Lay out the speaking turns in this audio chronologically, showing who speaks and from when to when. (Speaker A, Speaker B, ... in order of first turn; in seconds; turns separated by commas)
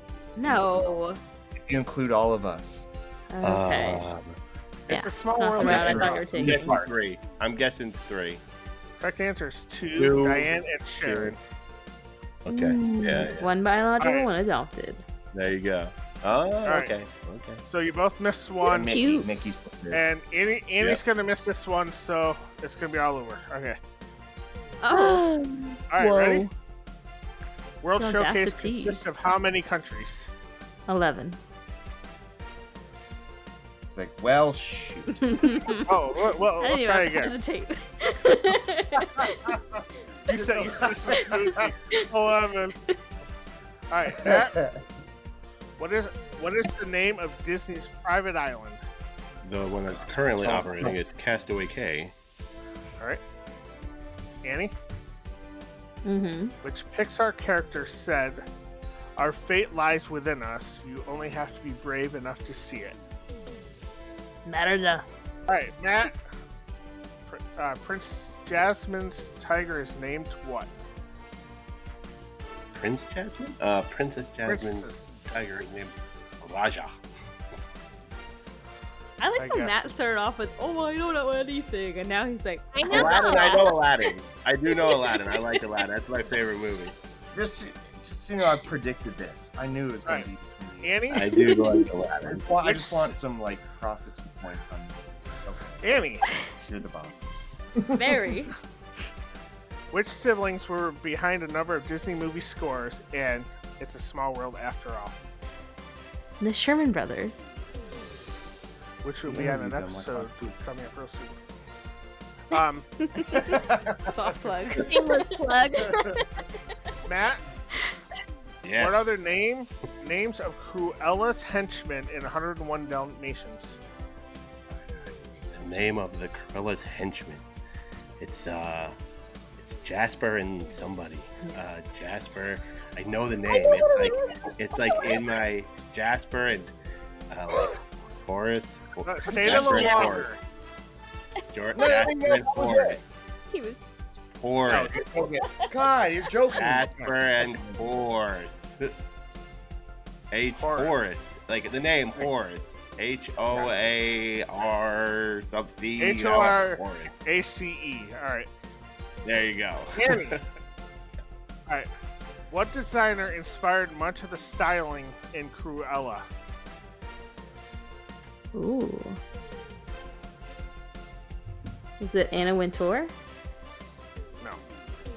Speaker A: 0.3-1.2, Speaker B: 0.5-0.9, Speaker B: 1.6-2.8, Speaker A: 3.3-4.0, Speaker C: 3.4-4.4, Speaker D: 4.9-6.6, Speaker A: 4.9-6.7, Speaker C: 5.6-8.4, Speaker B: 6.2-6.7, Speaker D: 9.0-11.4, Speaker C: 10.0-11.3, Speaker C: 12.4-13.5, Speaker A: 12.5-15.0, Speaker E: 12.8-13.1, Speaker D: 14.0-14.3, Speaker C: 15.3-17.6, Speaker D: 16.6-16.9, Speaker D: 17.7-19.0, Speaker B: 18.6-20.0, Speaker E: 18.7-19.3, Speaker D: 19.9-23.8, Speaker A: 24.8-25.2, Speaker E: 24.9-26.5, Speaker D: 25.9-26.5, Speaker D: 27.8-30.3, Speaker A: 28.0-29.0, Speaker A: 30.9-31.4, Speaker B: 33.9-35.7, Speaker A: 35.2-35.9, Speaker D: 35.9-37.3, Speaker A: 36.6-39.6, Speaker B: 39.2-39.6, Speaker D: 40.3-42.8, Speaker B: 40.3-41.7, Speaker D: 43.9-44.5, Speaker B: 44.1-44.8, Speaker D: 45.8-48.8, Speaker C: 49.4-52.1, Speaker B: 50.4-51.0, Speaker D: 54.4-54.7, Speaker A: 56.0-56.5, Speaker D: 56.6-58.4, Speaker D: 59.2-63.0, Speaker A: 64.5-65.0, Speaker D: 65.5-66.1, Speaker D: 67.3-70.7, Speaker C: 72.7-77.0, Speaker D: 74.4-75.1, Speaker A: 79.2-83.7, Speaker D: 79.4-79.9, Speaker E: 82.7-83.7, Speaker C: 82.8-86.9, Speaker A: 84.9-85.6, Speaker B: 87.3-91.0, Speaker D: 90.8-91.3, Speaker C: 91.1-92.4, Speaker B: 92.2-95.8, Speaker D: 92.6-93.1, Speaker D: 95.8-96.2, Speaker B: 96.6-97.1, Speaker B: 97.8-98.0, Speaker A: 97.9-98.5, Speaker D: 99.9-105.2, Speaker A: 106.4-107.5, Speaker D: 109.0-111.4, Speaker B: 109.3-110.5, Speaker D: 112.5-112.9, Speaker A: 113.0-115.5, Speaker B: 113.3-114.1, Speaker E: 114.9-116.4, Speaker D: 117.0-117.4, Speaker C: 118.6-119.0, Speaker D: 118.8-123.8, Speaker C: 125.5-127.4, Speaker C: 128.2-128.9, Speaker C: 129.6-136.7, Speaker E: 133.5-135.2, Speaker C: 137.3-140.3, Speaker D: 139.0-140.4, Speaker B: 139.5-140.1, Speaker C: 141.5-143.0, Speaker B: 141.7-143.0, Speaker E: 143.5-143.8, Speaker C: 144.4-145.0, Speaker B: 144.7-147.8, Speaker C: 146.5-148.9, Speaker C: 150.3-157.1, Speaker D: 150.5-150.9, Speaker D: 156.0-158.5, Speaker C: 159.2-160.4, Speaker D: 159.9-160.4, Speaker D: 162.5-166.2, Speaker A: 168.5-169.2, Speaker A: 172.0-173.1